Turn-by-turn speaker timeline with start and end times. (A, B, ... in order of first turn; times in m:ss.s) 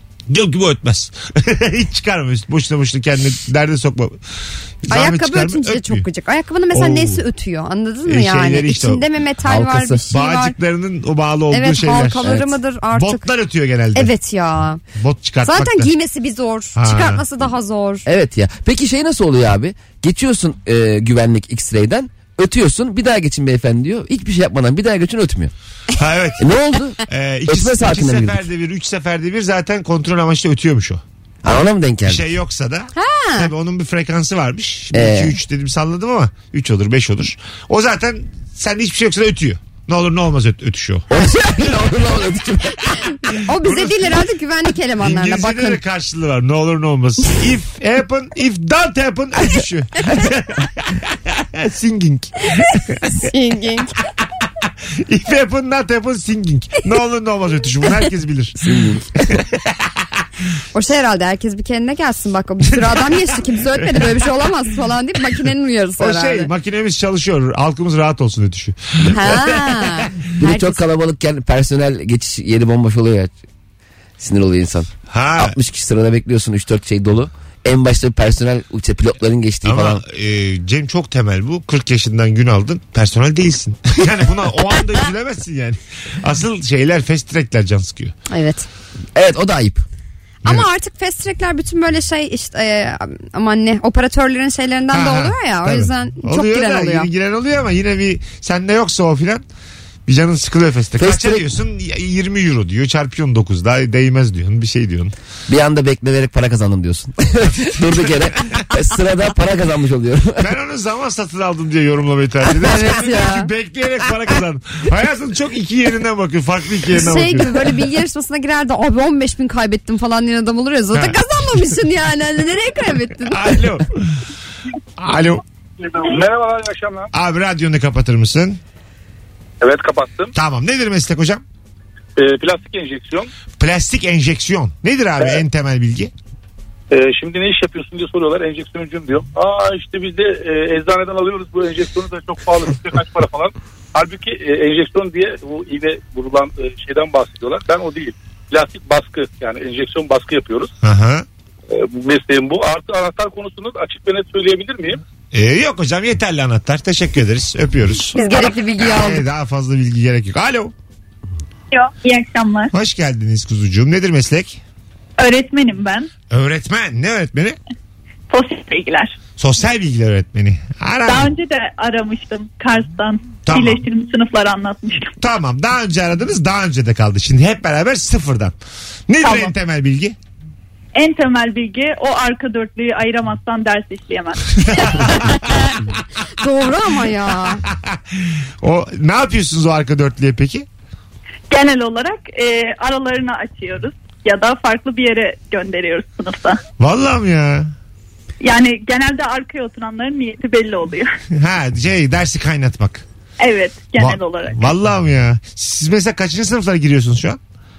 0:00.3-0:04.2 A
0:04.8-0:06.0 A
0:04.9-0:10.6 B
0:06.7-0:07.2 A
0:08.0-0:09.1 A
0:09.4-0:10.0 C
0:10.1-0:12.3 A
0:11.5-0:13.3 B
0:12.2-0:12.6 C
0:12.9-0:14.1 A
0:13.9-0:14.8 B
0:15.0-0:15.9 A
0:15.4-0:18.0 B
0:16.8-0:17.2 A
0:18.1-0:25.5 C
0:26.0-0:26.5 A
0:26.4-0:28.4 C
0:27.1-0:31.0 A
0:31.4-0:32.2 C
0:32.0-0:41.1 A
0:33.0-0:33.5 B
0:34.9-0:35.4 C
0:41.1-0:42.8 C
0:43.1-0:45.8 B
0:43.6-0:44.2 A
0:45.0-0:53.1 A
0:53.1-0:54.0 B
0:55.1-0:58.8 A
0:58.6-0:59.3 C
1:00.7-1:06.5 B
1:02.7-1:03.2 A
1:03.7-1:04.2 A
1:06.0-1:10.1 A
1:09.1-1:10.8 B
1:10.4-1:13.3 C
1:14.2-1:20.0 C
1:15.1-1:15.6 A
1:19.6-1:28.1 A
1:28.3-1:28.7 B
1:29.2-1:29.8 C
1:30.4-1:37.1 B
1:34.9-1:39.4 A
1:40.1-1:45.2 A
1:41.0-1:41.6 C
1:45.5-1:50.5 C
1:50.4-1:57.7 A
1:52.6-1:53.5 B
1:56.9-2:03.4 B
2:00.9-2:01.2 A
2:03.3-2:04.0 A
2:05.0-2:05.4 A
2:05.8-2:07.1 D
2:07.1-2:08.6 A
2:09.6-2:10.3 D
2:10.3-2:11.4 A
2:12.2-2:13.3 D
2:13.6-2:16.1 A
2:16.9-2:30.7 D
2:30.8-2:31.2 A
2:31.7-2:35.0 D
2:35.3-2:38.2 A
2:38.1-2:39.2 B
2:38.8-2:40.7 A
2:41.7-2:42.7 E
2:42.7-2:44.6 A
2:45.2-2:46.1 E
2:46.3-2:47.6 A
2:48.3-2:49.1 E
2:49.4-2:51.3 A
2:51.0-2:55.1 E
2:53.5-2:53.8 A
2:55.2-2:58.6 A
2:59.1-3:00.2 A
2:59.2-2:59.5 E
3:01.0-3:04.8 E
3:04.9-3:05.4 A
3:06.4-3:07.6 B
3:08.6-3:10.7 A
3:11.5-3:16.6 E
3:16.8-3:17.7 A
3:18.4-3:21.1 E
3:21.3-3:23.0 A
3:23.4-3:24.7 E
3:24.0-3:27.4 A